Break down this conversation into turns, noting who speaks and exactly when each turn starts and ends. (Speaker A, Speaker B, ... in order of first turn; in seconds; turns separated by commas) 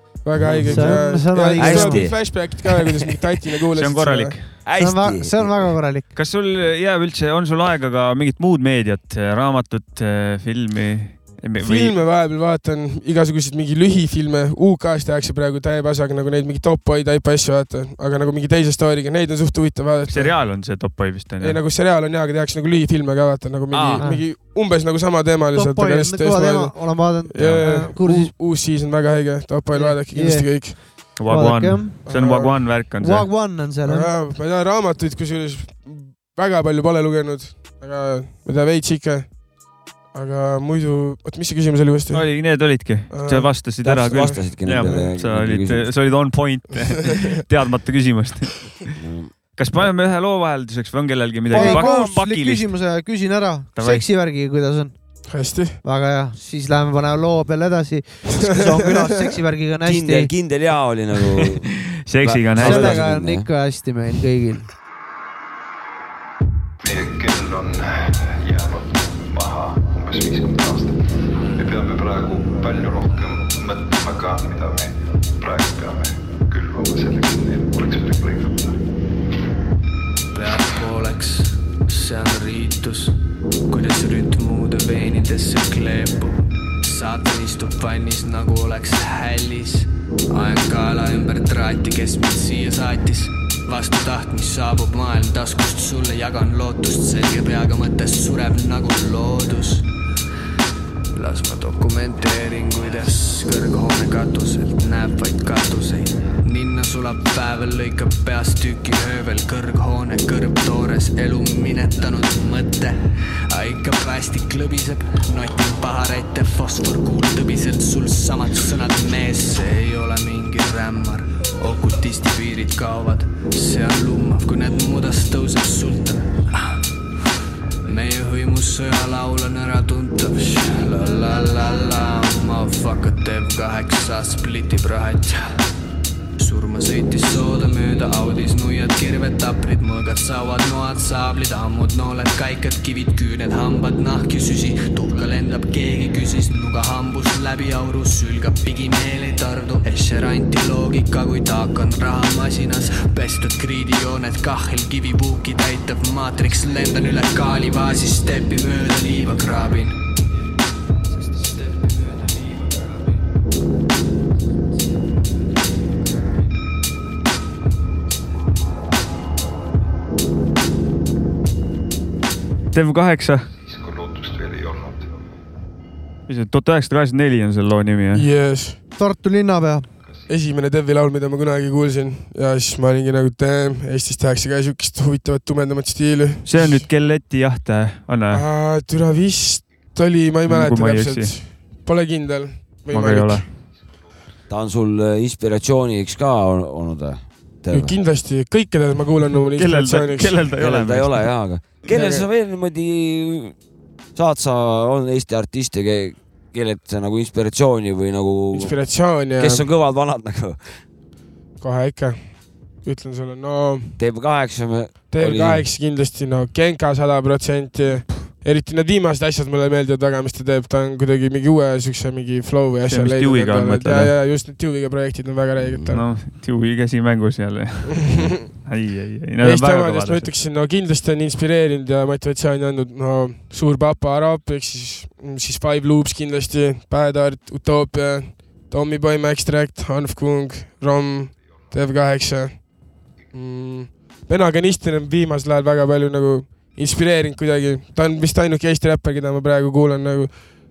Speaker A: 0.2-4.4, Speaker B: 0.4-2.8, Speaker C: 0.7-2.1, Speaker D: 3.8-4.5, Speaker B: 4.6-5.8, Speaker C: 4.8-6.0, Speaker D: 6.1-11.9, Speaker A: 11.6-20.5, Speaker D: 20.1-21.6, Speaker A: 21.4-30.8, Speaker B: 23.7-24.0, Speaker C: 24.0-24.2, Speaker C: 25.5-28.3, Speaker C: 29.7-31.9, Speaker D: 31.2-33.3, Speaker A: 32.0-32.7, Speaker C: 33.0-34.1, Speaker A: 33.8-39.3, Speaker A: 40.1-42.3, Speaker D: 42.1-48.7, Speaker A: 43.1-45.0, Speaker B: 43.8-45.9, Speaker A: 47.1-47.4, Speaker B: 49.0-49.3, Speaker D: 49.6-52.7, Speaker B: 51.5-52.2, Speaker C: 51.5-54.9, Speaker D: 53.8-54.0, Speaker A: 55.3-55.8, Speaker C: 55.8-60.3, Speaker A: 58.3-58.9, Speaker B: 59.8-63.5, Speaker D: 62.1-63.0, Speaker C: 62.6-64.7, Speaker E: 66.8-71.0, Speaker E: 71.5-78.8, Speaker F: 80.3-99.9, Speaker F: 101.1-126.3, Speaker F: 127.9-135.4, Speaker F: 136.4-160.0, Speaker D: 172.7-173.4, Speaker E: 173.6-175.1, Speaker D: 176.3-178.2, Speaker A: 178.1-178.8, Speaker C: 179.0-179.9, Speaker A: 180.3-186.9, Speaker D: 186.4-188.4, Speaker A: 188.3-193.4, Speaker D: 190.5-191.3, Speaker D: 192.9-193.4, Speaker B: 194.5-198.0, Speaker A: 197.7-200.4, Speaker D: 199.5-201.3, Speaker B: 200.6-203.5, Speaker A: 201.9-202.2, Speaker B: 204.2-210.7, Speaker A: 208.5-209.7, Speaker A: 211.6-214.0, Speaker B: 214.0-215.7, Speaker A: 215.1-226.0, Speaker D: 222.9-224.1, Speaker B: 225.6-226.0, Speaker D: 225.9-228.1, Speaker A: 228.0-228.3, Speaker D: 228.7-230.3, Speaker A: 229.4-242.6, Speaker A: 243.3-250.4